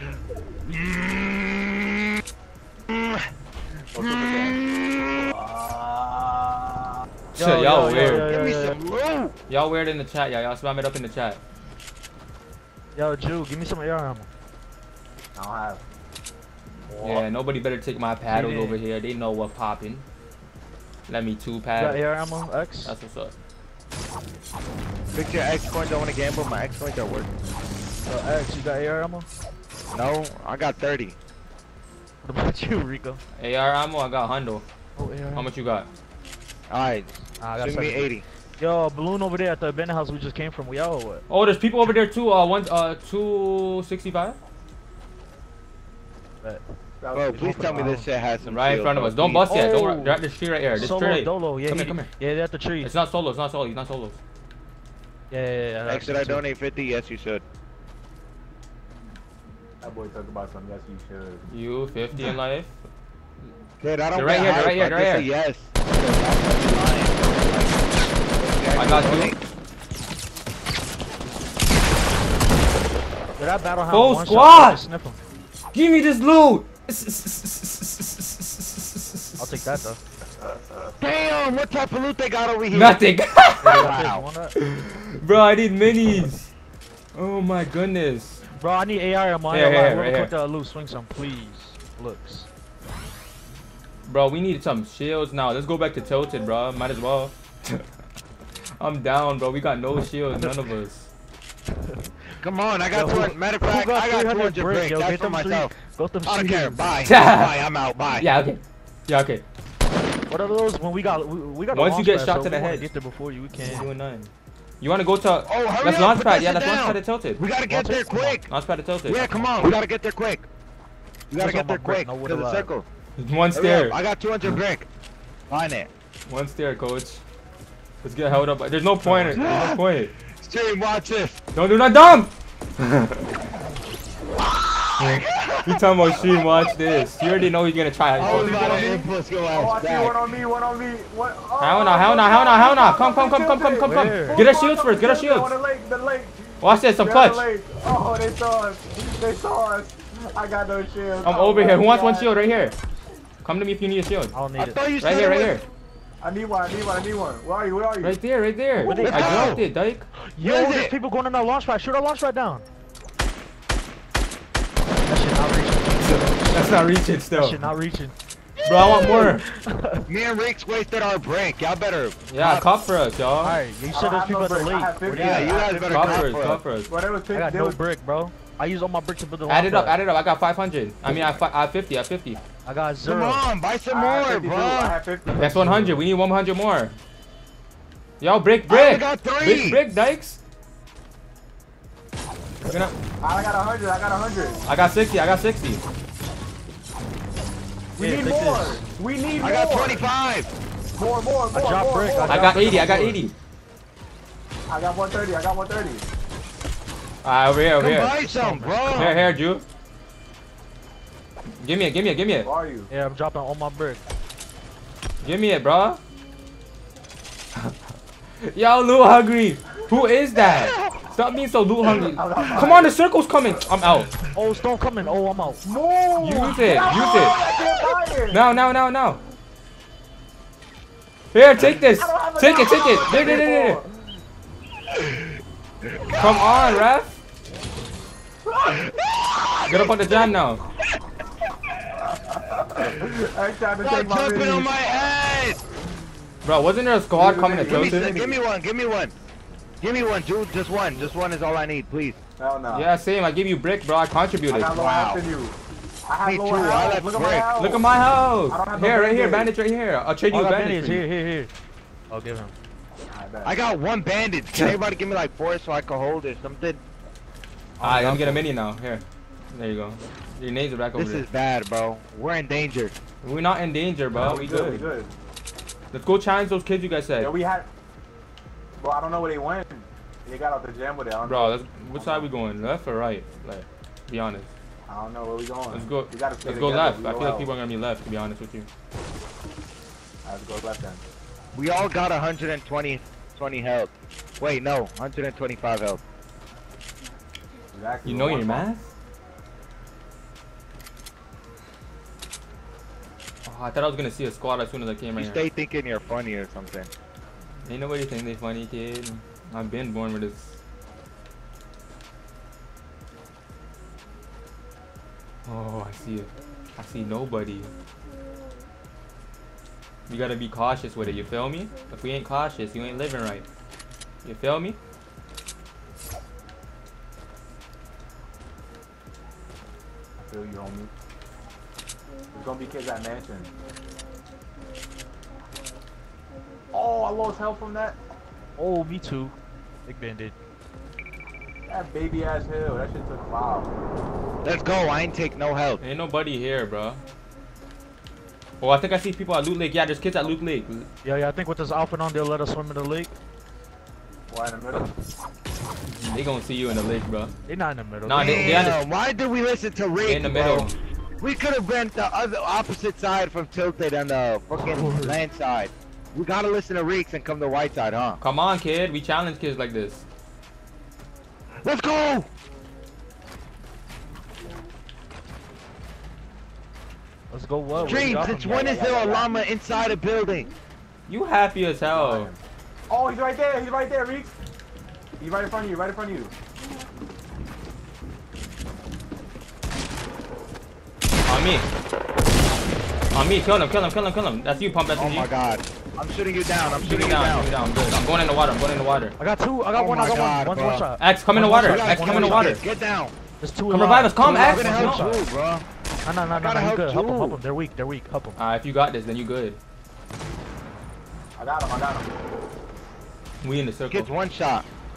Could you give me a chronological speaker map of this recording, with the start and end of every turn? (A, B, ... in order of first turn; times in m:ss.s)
0:00.6-0:02.2 A
0:02.9-0:03.3 A
0:03.9-0:04.6 B
0:04.0-0:05.4 A
0:05.4-0:06.4 B
0:07.3-0:08.3 C
0:07.4-0:08.8 D
0:08.1-0:09.3 A
0:09.5-0:11.4 C
0:12.9-0:14.3 D
0:15.3-0:15.8 B
0:16.9-0:17.2 D
0:17.0-0:20.0 C
0:18.3-0:18.8 D
0:21.1-0:22.0 C
0:21.8-0:22.9 D
0:22.8-0:23.3 C
0:25.1-0:27.3 A
0:28.0-0:29.3 D
0:29.9-0:31.1 A
0:32.2-0:33.2 D
0:33.4-0:34.6 C
0:35.0-0:35.5 D
0:35.3-0:35.9 C
0:36.7-0:38.2 A
0:37.4-0:41.2 D
0:41.3-0:44.4 C
0:47.0-0:47.8 B
0:47.1-0:49.5 A
0:47.3-0:48.0 D
0:48.4-0:52.1 C
0:49.5-0:50.2 D
0:50.7-0:52.9 D
0:52.8-0:54.2 C
0:55.3-0:56.4 D
0:55.9-0:57.4 A
0:59.8-1:01.5 B
1:01.5-1:02.7 C
1:03.8-1:09.4 A
1:04.1-1:05.3 C
1:08.8-1:09.4 C
1:13.4-1:15.2 D
1:13.9-1:14.8 C
1:15.7-1:19.8 C
1:19.4-1:20.0 D
1:21.0-1:23.0 A
1:22.7-1:24.0 C
1:23.6-1:24.5 D
1:23.7-1:24.2 A
1:24.6-1:26.5 C
1:27.1-1:28.4 C
1:28.5-1:32.5 D
1:29.5-1:30.3 C
1:34.0-1:37.8 C
1:38.8-1:41.1 C
1:41.8-1:42.1 D
1:42.4-1:45.7 A
1:42.9-1:46.9 D
1:46.2-1:48.3 A
1:47.0-1:47.6 C
1:48.1-1:49.4 C
1:50.3-1:53.9 D
1:51.7-1:52.9 C
1:53.6-1:57.4 C
1:55.5-1:58.5 A
1:57.7-1:58.4 D
1:58.5-1:59.3 C
1:59.1-2:00.4 A
1:59.2-1:59.7 D
2:01.3-2:02.8 A
2:01.4-2:02.7 D
2:03.2-2:04.0 C
2:03.5-2:04.9 A
2:05.5-2:05.9 A
2:06.3-2:07.2 C
2:08.0-2:10.1 C
2:09.0-2:09.6 D
2:09.3-2:11.4 A
2:11.5-2:13.2 C
2:14.4-2:16.8 A
2:15.0-2:18.9 C
2:18.2-2:20.2 A
2:18.2-2:32.3 B
2:21.6-2:25.5 C
2:23.8-2:24.5 D
2:26.6-2:27.5 C
2:31.2-2:32.7 C
2:33.4-2:34.3 C
2:34.3-2:34.8 D
2:34.6-2:35.6 A
2:35.0-2:35.6 C
2:36.2-2:38.2 B
2:38.0-2:40.1 C
2:38.8-2:39.6 D
2:38.8-2:39.7 A
2:40.2-2:42.6 D
2:40.4-2:40.9 A
2:45.0-2:46.6 D
2:46.0-2:47.6 C
2:47.3-2:48.1 D
2:48.6-2:49.4 A
2:48.6-2:49.4 C
2:49.0-2:50.1 D
2:50.1-2:52.2 A
2:52.3-2:53.5 C
2:53.4-2:55.7 D
2:53.9-2:56.2 B
2:55.1-2:56.6 A
2:55.9-2:56.9 C
2:56.9-2:57.8 B
2:57.3-3:00.0 D
2:59.5-3:02.4 C
3:02.6-3:03.4 D
3:03.0-3:05.0 A
3:03.9-3:06.0 B
3:05.3-3:07.0 C
3:08.2-3:10.4 C
3:08.7-3:09.8 A
3:12.6-3:12.9 C
3:13.2-3:14.6 B
3:14.6-3:15.8 C
3:18.0-3:18.8 D
3:18.0-3:20.0 B
3:19.4-3:20.5 A
3:20.9-3:23.0 B
3:21.5-3:23.2 D
3:22.3-3:23.3 C
3:24.7-3:26.0 B
3:27.2-3:28.1 C
3:27.8-3:29.2 A
3:28.2-3:29.3 D
3:28.9-3:29.6 C
3:31.6-3:32.5 C
3:32.4-3:32.9 B
3:32.9-3:34.0 D
3:35.2-3:36.0 C
3:38.4-3:44.2 C
3:40.4-3:41.0 A
3:41.9-3:42.9 B
3:44.3-3:45.6 D
3:45.6-3:48.4 B
3:46.2-3:47.4 C
3:48.3-3:49.2 C
3:51.3-3:53.8 C
3:51.6-3:54.1 B
3:54.9-3:55.2 A
3:55.8-3:56.8 A
3:56.2-3:57.2 C
3:58.7-4:00.2 A
3:59.7-4:00.6 C
4:02.3-4:04.7 B
4:03.8-4:05.6 A
4:06.4-4:08.1 C
4:07.1-4:08.4 B
4:07.7-4:09.1 A
4:09.8-4:12.2 A
4:12.4-4:12.9 B
4:12.7-4:14.8 C
4:14.5-4:15.6 B
4:14.7-4:15.2 A
4:16.1-4:17.8 B
4:16.2-4:17.5 A
4:17.6-4:21.0 C
4:18.5-4:19.5 B
4:20.3-4:21.5 D
4:22.1-4:22.5 D
4:23.1-4:23.5 B
4:23.4-4:26.8 A
4:27.8-4:28.4 D
4:27.8-4:31.2 C
4:30.9-4:32.9 A
4:33.2-4:34.9 C
4:34.1-4:35.1 B
4:35.9-4:37.3 C
4:37.2-4:37.7 B
4:38.8-4:42.3 B
4:41.2-4:44.5 C
4:44.9-4:47.5 B
4:45.7-4:48.7 C
4:50.2-4:51.0 B
4:51.5-4:56.0 A
4:57.7-4:58.6 B
4:58.0-4:58.8 C
5:03.4-5:05.4 C
5:05.2-5:06.9 A
5:07.6-5:10.6 C
5:15.4-5:17.7 C
5:20.1-5:23.4 C
5:24.2-5:24.8 C
5:30.3-5:30.9 B
5:32.3-5:33.5 B
5:36.7-5:38.0 B
5:38.6-5:39.3 D
5:39.8-5:40.3 D
5:41.7-5:43.7 B
5:44.4-5:45.8 A
5:45.8-5:47.0 C
5:48.6-5:50.9 C
5:51.0-5:53.1 D
5:54.3-5:54.9 B
5:55.9-5:57.3 C
5:57.4-5:58.7 D
5:58.0-5:58.8 C
5:58.1-6:08.2 A
6:00.0-6:00.7 C
6:04.6-6:05.2 D
6:08.2-6:10.0 C
6:11.6-6:12.3 A
6:17.3-6:18.8 D
6:17.7-6:19.3 B
6:17.8-6:20.5 A
6:21.1-6:22.3 C
6:21.9-6:24.3 B
6:25.2-6:26.3 B
6:31.2-6:31.7 C
6:33.1-6:35.3 C
6:34.9-6:37.5 A
6:36.8-6:39.1 C
6:39.2-6:42.6 D
6:39.7-6:40.8 A
6:41.0-6:42.6 C
6:41.6-6:43.1 A
6:43.4-6:45.2 D
6:43.7-6:45.0 C
6:44.2-6:45.6 A
6:46.0-6:48.4 D
6:46.3-6:47.4 A
6:48.4-6:49.6 C
6:51.4-6:52.1 B
6:53.4-6:54.1 C
6:53.9-6:54.6 A